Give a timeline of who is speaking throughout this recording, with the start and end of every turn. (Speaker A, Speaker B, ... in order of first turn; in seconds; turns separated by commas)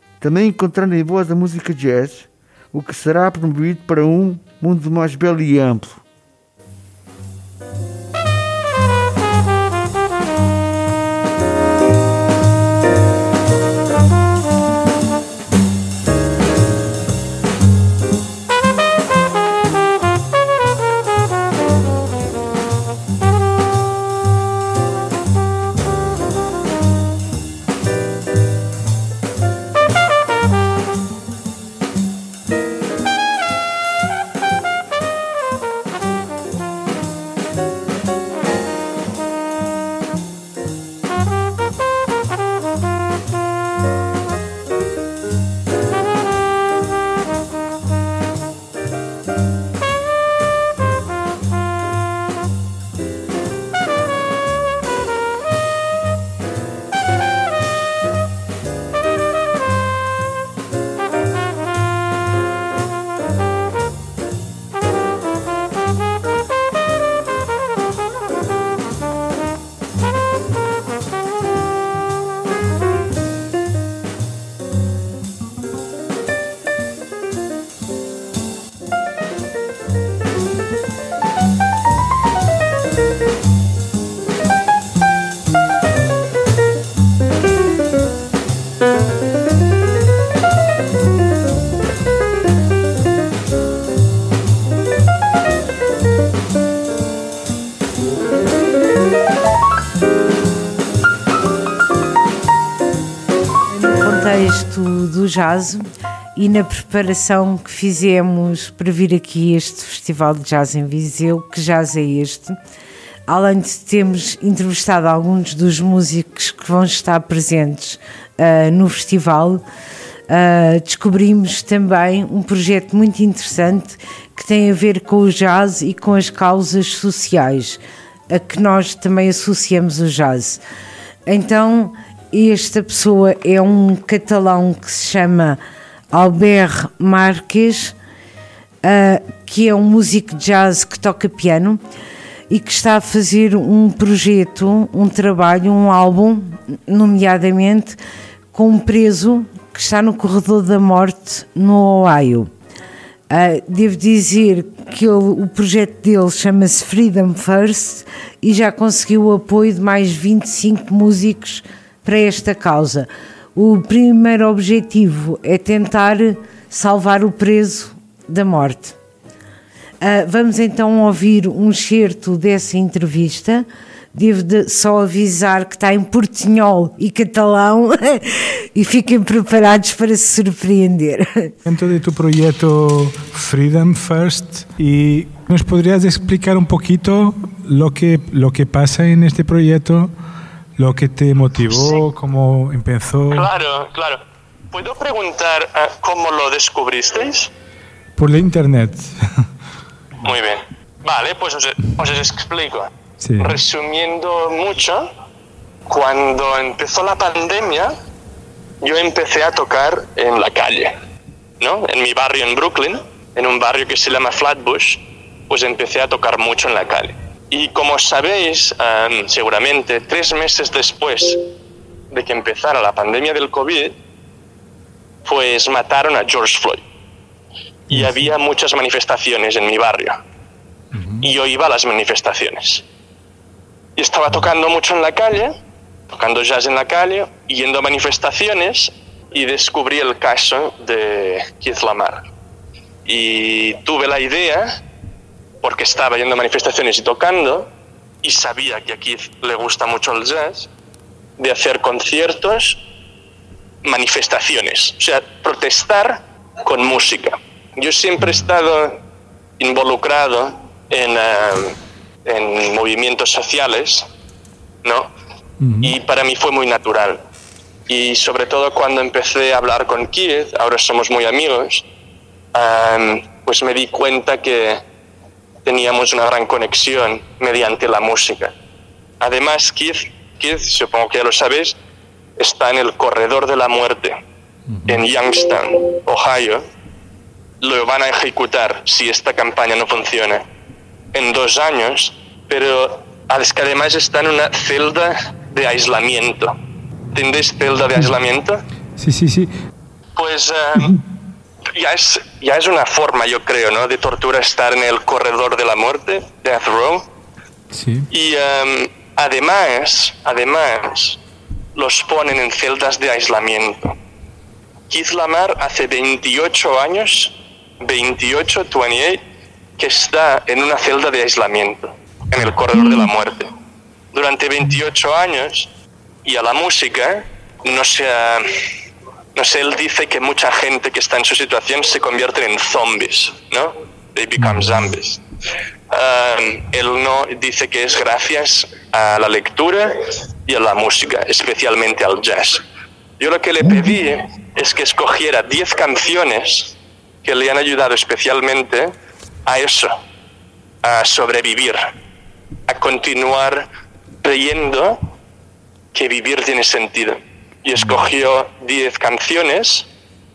Speaker A: 0.2-6.0, Speaker B: 103.7-105.8, Speaker B: 106.4-112.6, Speaker B: 113.3-119.6, Speaker B: 120.3-130.6, Speaker B: 131.3-135.6, Speaker B: 136.1-137.9, Speaker B: 138.8-141.8, Speaker B: 142.5-148.0, Speaker B: 148.5-152.5, Speaker B: 153.3-169.0, Speaker B: 170.0-181.5, Speaker C: 181.7-190.1, Speaker C: 190.8-193.5, Speaker D: 191.7-192.0, Speaker D: 193.3-194.2, Speaker D: 194.7-197.5, Speaker C: 198.2-199.3, Speaker D: 200.2-202.9, Speaker C: 203.2-203.6, Speaker D: 203.4-205.1, Speaker D: 205.9-207.9, Speaker D: 208.8-210.9, Speaker D: 211.6-221.4, Speaker D: 222.1-223.9, Speaker D: 225.2-226.8, Speaker D: 227.9-230.2, Speaker C: 227.9-228.3, Speaker C: 230.9-231.3, Speaker D: 231.2-232.8, Speaker D: 234.0-235.5, Speaker D: 236.1-242.3, Speaker D: 243.1-244.7, Speaker D: 245.6-247.7, Speaker D: 248.2-250.7, Speaker D: 251.4-252.8, Speaker D: 253.8-259.0, Speaker D: 259.6-261.8, Speaker D: 262.3-264.1, Speaker D: 264.8-265.1, Speaker C: 265.6-265.9, Speaker D: 265.8-267.2, Speaker D: 267.9-271.9, Speaker D: 272.5-274.8, Speaker D: 275.6-278.5, Speaker D: 279.2-281.8, Speaker D: 282.4-284.2, Speaker C: 284.7-285.0, Speaker D: 284.9-286.6, Speaker D: 287.6-290.4, Speaker D: 291.1-296.5, Speaker D: 297.1-298.6, Speaker C: 299.0-299.5, Speaker D: 300.2-300.9, Speaker D: 301.8-307.1, Speaker C: 307.7-308.1, Speaker D: 308.1-311.2, Speaker D: 311.8-314.0, Speaker D: 314.9-319.2, Speaker D: 319.8-323.5, Speaker D: 324.1-325.7, Speaker D: 326.2-328.5, Speaker D: 329.4-335.2, Speaker C: 334.4-334.8, Speaker D: 335.9-339.9, Speaker D: 340.5-342.6, Speaker D: 343.2-348.9, Speaker D: 349.5-350.0, Speaker D: 350.8-351.8, Speaker D: 352.7-353.7, Speaker D: 354.2-355.0, Speaker D: 355.9-359.9, Speaker C: 357.8-358.1